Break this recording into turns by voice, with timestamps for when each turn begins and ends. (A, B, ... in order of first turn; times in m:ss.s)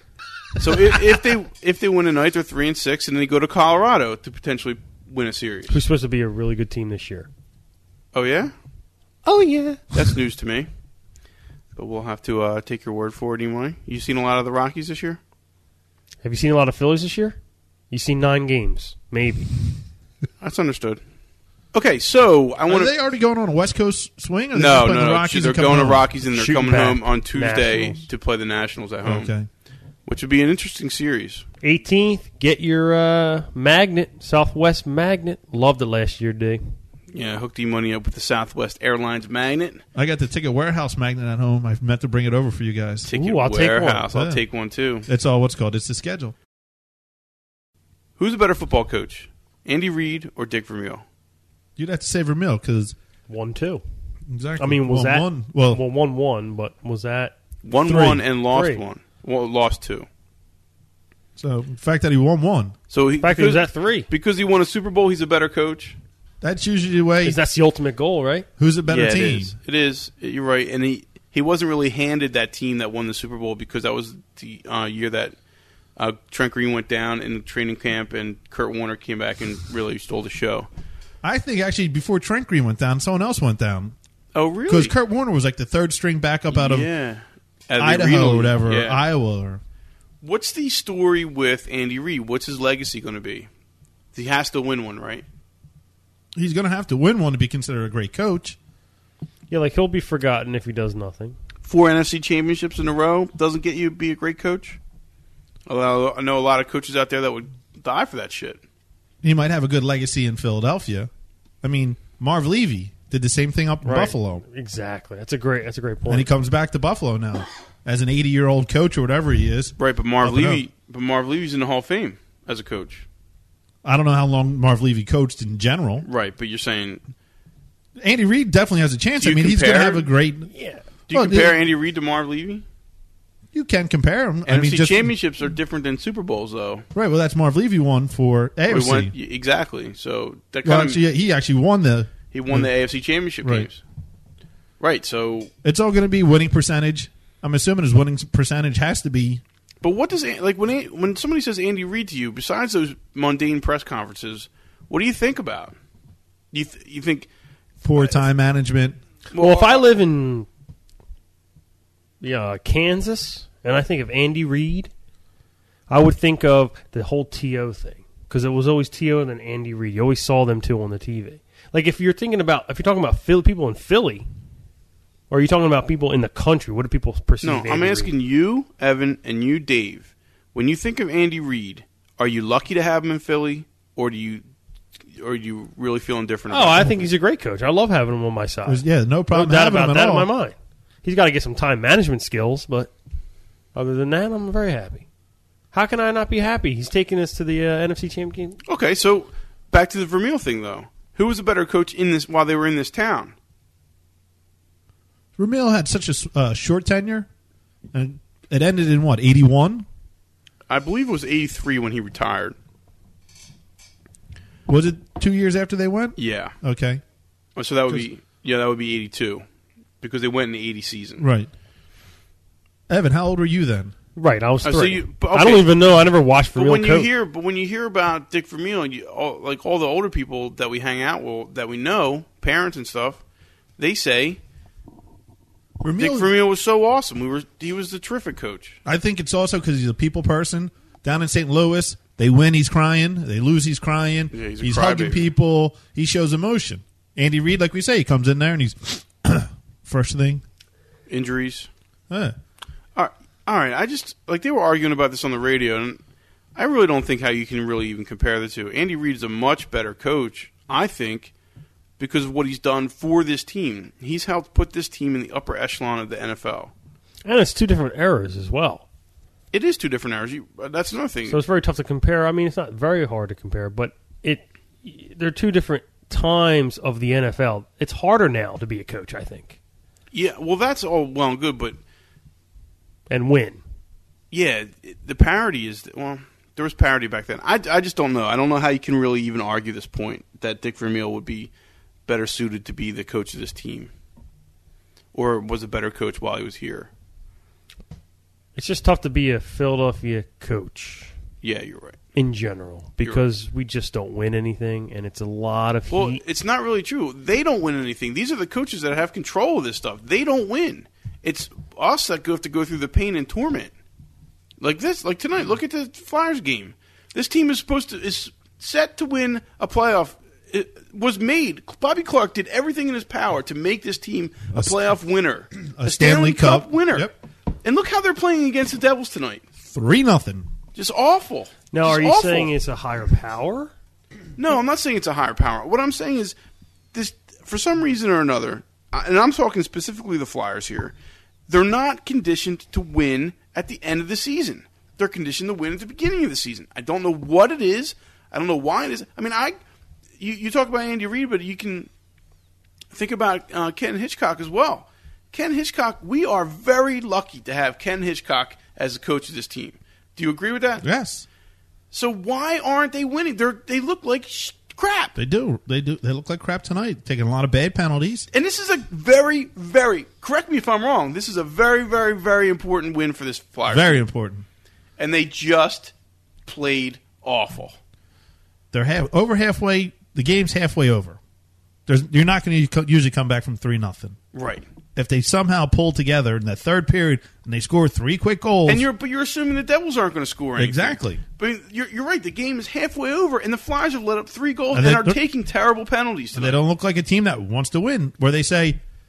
0:00.6-0:05.8 A
0:05.7-0:07.3 B
0:08.1-0:08.5 A
0:09.2-0:10.1 B
0:09.9-0:10.7 A
0:11.8-0:15.2 A
0:16.2-0:17.4 B
0:17.9-0:19.5 B
0:20.4-0:21.0 A
0:21.7-0:22.9 A
0:22.7-0:26.1 C
0:24.6-0:29.3 A
0:26.3-0:28.0 B
0:29.0-0:29.5 C
0:30.1-0:31.4 A
0:31.6-0:36.6 B
0:37.1-0:39.8 A
0:40.0-0:43.1 C
0:43.1-0:45.1 A
0:43.1-0:44.1 B
0:44.1-0:44.4 C
0:45.1-0:46.4 C
0:48.2-0:51.0 A
0:51.8-0:53.0 C
0:53.3-0:53.8 B
0:54.3-0:55.8 C
0:54.6-0:58.8 B
0:57.6-1:00.1 A
1:01.4-1:02.8 C
1:02.9-1:06.0 A
1:03.2-1:04.1 B
1:06.4-1:07.4 C
1:07.2-1:08.5 B
1:08.6-1:09.6 C
1:08.9-1:15.3 A
1:16.0-1:20.7 A
1:21.2-1:24.0 C
1:24.3-1:24.9 A
1:24.7-1:26.9 C
1:26.5-1:29.0 A
1:27.8-1:29.6 C
1:30.2-1:33.5 A
1:34.1-1:35.2 A
1:36.4-1:38.6 C
1:39.5-1:41.4 B
1:41.6-1:44.8 A
1:45.7-1:48.6 A
1:49.2-1:51.1 C
1:51.6-1:54.4 C
1:53.8-1:56.3 B
1:56.1-2:00.6 C
1:59.8-2:03.1 A
2:03.8-2:06.1 C
2:06.0-2:07.0 A
2:08.0-2:10.5 C
2:09.2-2:10.1 A
2:10.5-2:10.8 B
2:11.1-2:12.6 A
2:11.1-2:11.6 C
2:13.5-2:15.1 C
2:14.5-2:16.8 A
2:16.9-2:19.1 C
2:18.7-2:21.0 A
2:20.6-2:22.7 C
2:22.3-2:23.8 A
2:23.4-2:23.7 C
2:24.8-2:25.5 A
2:25.6-2:29.4 C
2:29.8-2:35.8 A
2:36.5-2:37.3 A
2:37.8-2:39.0 C
2:38.0-2:38.2 A
2:39.3-2:39.8 A
2:39.4-2:40.5 B
2:42.2-2:44.9 B
2:45.9-2:54.3 B
2:55.3-2:58.1 B
2:57.4-3:04.4 A
3:05.2-3:07.0 A
3:06.5-3:12.9 B
3:08.7-3:10.3 C
3:13.8-3:15.1 B
3:15.7-3:18.6 B
3:18.7-3:23.4 A
3:25.4-3:27.3 C
3:27.9-3:29.9 C
3:30.7-3:32.6 A
3:34.7-3:37.0 C
3:36.2-3:36.5 A
3:37.6-3:39.4 A
3:40.0-3:41.2 A
3:41.2-3:41.5 C
3:42.9-3:43.9 C
3:44.2-3:47.1 B
3:44.6-3:45.7 A
3:46.6-3:53.2 A
3:53.8-3:54.4 A
3:55.8-3:56.3 C
3:56.0-3:58.8 A
3:58.8-4:10.4 C
4:04.3-4:05.3 A
4:11.1-4:11.7 A
4:12.1-4:12.4 C
4:13.0-4:16.0 A
4:16.6-4:21.3 A
4:22.0-4:26.7 A
4:27.2-4:28.8 B
4:29.5-4:31.4 A
4:31.3-4:39.6 B
4:40.1-4:41.8 A
4:43.1-4:43.6 B
4:44.3-4:51.5 A
4:52.1-4:53.9 A
4:55.1-4:56.9 A
4:58.6-5:01.1 B
5:01.4-5:02.0 A
5:02.2-5:06.2 B
5:05.9-5:13.7 A
5:14.6-5:27.1 A
5:24.5-5:24.9 C
5:25.7-5:27.1 C
5:27.6-5:29.4 A
5:29.6-5:30.5 C
5:30.8-5:32.5 A
5:31.7-5:33.7 B
5:34.4-5:36.4 A
5:36.9-5:40.9 A
5:41.5-5:49.6 A
5:50.2-5:51.9 A
5:52.9-6:00.8 A
6:00.8-6:01.3 C
6:01.9-6:05.2 A
6:05.2-6:08.3 C
6:08.3-6:14.0 A
6:13.7-6:14.4 C
6:15.0-6:15.9 A
6:16.5-6:17.8 A
6:18.7-6:21.2 C
6:21.9-6:24.2 C
6:24.3-6:24.6 A
6:25.0-6:28.9 C
6:28.7-6:36.6 A
6:30.6-6:31.2 C
6:34.7-6:35.2 C
6:36.4-6:38.8 C